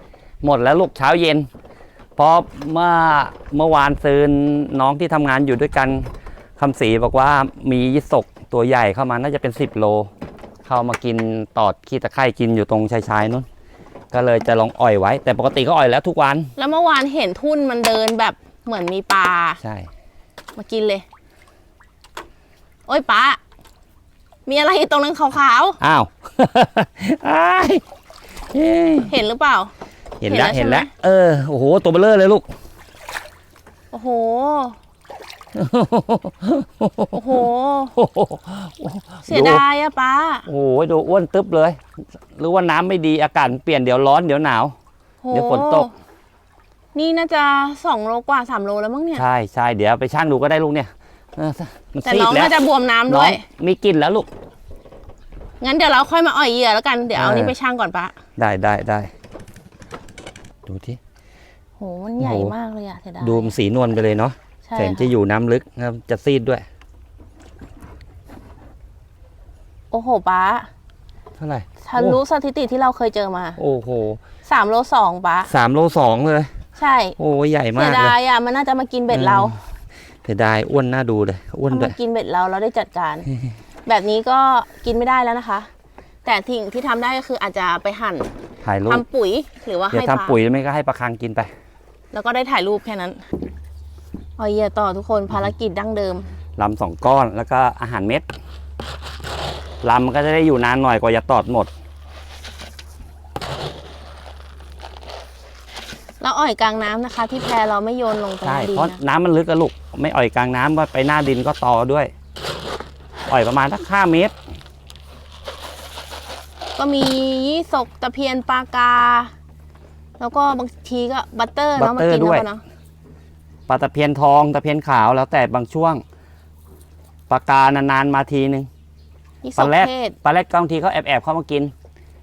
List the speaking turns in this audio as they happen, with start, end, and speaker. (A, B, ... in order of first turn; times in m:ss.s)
0:00.4-0:01.5 A
0:02.2-0:10.1 A
0:10.6-0:13.4 A
0:14.1-0:16.5 A
0:16.6-0:19.6 B
0:19.6-0:19.9 A
0:20.6-0:21.0 B
0:22.9-0:23.4 B
0:24.4-0:25.8 B
0:25.8-0:27.8 A
0:28.5-0:29.1 A
0:29.1-0:29.7 B
0:30.2-0:32.5 A
0:30.3-0:30.9 B
0:33.9-0:34.8 B
0:35.5-0:37.2 A
0:37.1-0:37.9 B
0:37.9-0:39.6 A
0:39.2-0:40.5 B
0:40.5-0:41.8 A
0:42.3-0:44.8 A
0:45.2-0:45.9 B
0:45.3-0:45.9 A
0:46.9-0:49.2 B
0:49.2-0:52.6 A
0:52.0-0:53.4 B
0:53.1-0:54.3 A
0:55.6-0:58.1 B
0:57.1-0:57.5 A
0:58.4-0:59.1 A
1:00.6-1:01.0 A
1:01.8-1:03.5 B
1:02.2-1:02.5 A
1:03.2-1:06.6 A
1:04.6-1:05.1 B
1:09.9-1:10.7 B
1:11.4-1:12.2 A
1:11.8-1:13.6 B
1:13.6-1:14.2 A
1:14.4-1:15.5 B
1:15.5-1:16.5 A
1:16.8-1:17.2 B
1:17.2-1:18.1 A
1:17.8-1:19.6 B
1:19.1-1:19.6 A
1:20.2-1:22.0 A
1:21.7-1:23.3 B
1:23.8-1:25.7 B
1:26.2-1:28.3 B
1:28.6-1:29.0 A
1:28.9-1:30.4 B
1:29.9-1:31.5 A
1:32.1-1:33.2 B
1:34.4-1:36.3 B
1:36.6-1:38.2 A
1:39.8-1:41.7 A
1:46.2-1:49.0 B
1:48.4-1:52.1 A
1:53.3-1:54.3 A
1:56.8-1:59.3 B
2:00.2-2:02.6 B
2:01.8-2:02.4 A
2:03.7-2:06.0 A
2:07.3-2:08.7 A
2:09.4-2:10.2 B
2:09.6-2:11.7 A